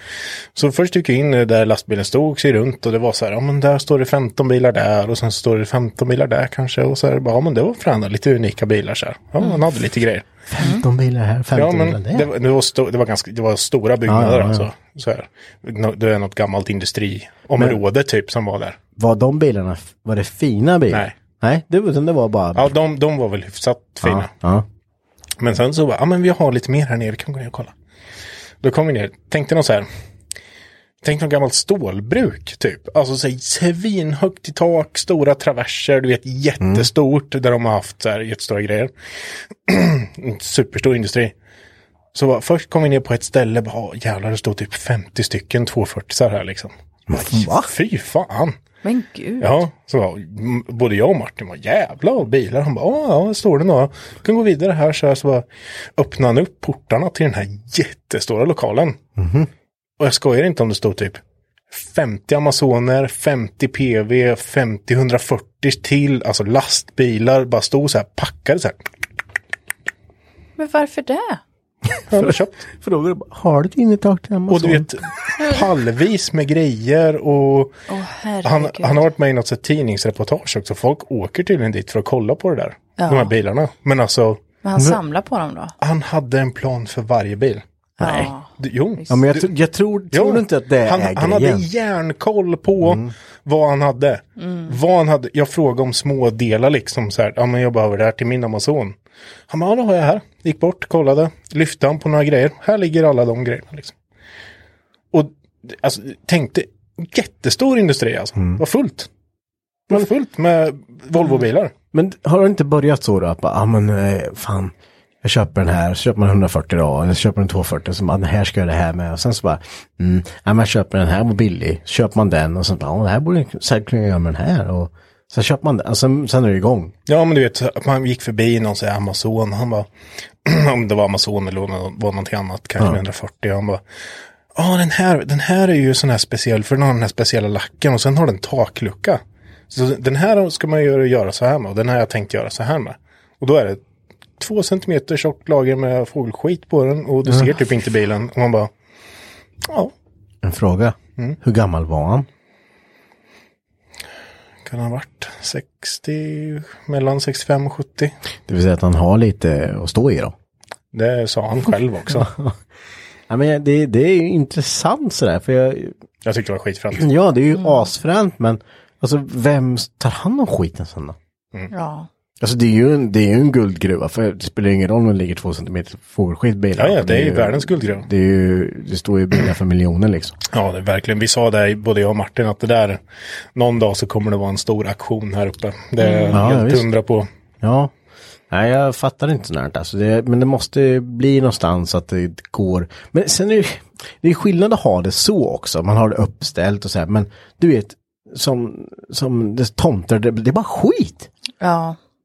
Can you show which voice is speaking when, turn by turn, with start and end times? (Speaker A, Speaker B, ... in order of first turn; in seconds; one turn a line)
Speaker A: 0.5-10.3
Speaker B: 10.5-12.3
Speaker A: 11.5-18.8
Speaker B: 14.1-14.7
Speaker B: 17.6-17.8
Speaker B: 18.9-22.7
Speaker A: 22.5-24.3
Speaker B: 24.0-24.6
Speaker A: 25.4-27.7
Speaker A: 28.6-29.9
Speaker A: 31.0-38.9
Speaker B: 36.6-36.9
Speaker A: 39.7-41.3
Speaker A: 42.1-46.7
Speaker B: 47.1-47.7
Speaker A: 47.3-48.5
Speaker C: 48.8-49.5
Speaker A: 49.4-59.0
Speaker B: 59.2-59.5
Speaker A: 60.0-61.2
Speaker A: 61.7-68.8
Speaker C: 70.6-71.4
Speaker A: 72.1-72.6
Speaker B: 72.1-74.9
Speaker A: 74.5-77.8
Speaker C: 77.9-79.1
Speaker A: 78.4-84.4
Speaker C: 83.0-83.3
Speaker C: 84.6-85.7
Speaker A: 85.8-89.5
Speaker C: 88.0-89.1
Speaker B: 88.0-88.3
Speaker B: 89.1-91.7
Speaker A: 90.1-99.0
Speaker B: 92.8-93.1
Speaker C: 94.4-94.7
Speaker A: 99.5-103.9
Speaker A: 105.1-109.1
Speaker A: 109.9-111.7
Speaker B: 111.9-126.9
Speaker A: 127.1-129.9
Speaker A: 130.4-133.8
Speaker A: 134.5-143.8
Speaker A: 144.4-148.7
Speaker B: 147.2-147.5
Speaker A: 149.6-149.9
Speaker B: 150.4-152.3
Speaker A: 154.6-158.1
Speaker B: 158.5-160.3
Speaker A: 160.9-162.3
Speaker B: 162.1-162.6
Speaker B: 163.3-165.9
Speaker A: 166.2-167.1
Speaker B: 166.9-171.2
Speaker C: 167.5-167.8
Speaker C: 171.7-172.1
Speaker B: 172.4-180.4
Speaker A: 176.8-178.1
Speaker A: 180.5-183.0
Speaker A: 183.5-187.3
Speaker C: 186.0-186.4
Speaker B: 186.3-186.9
Speaker B: 187.6-187.9
Speaker B: 188.5-201.3
Speaker C: 201.6-202.0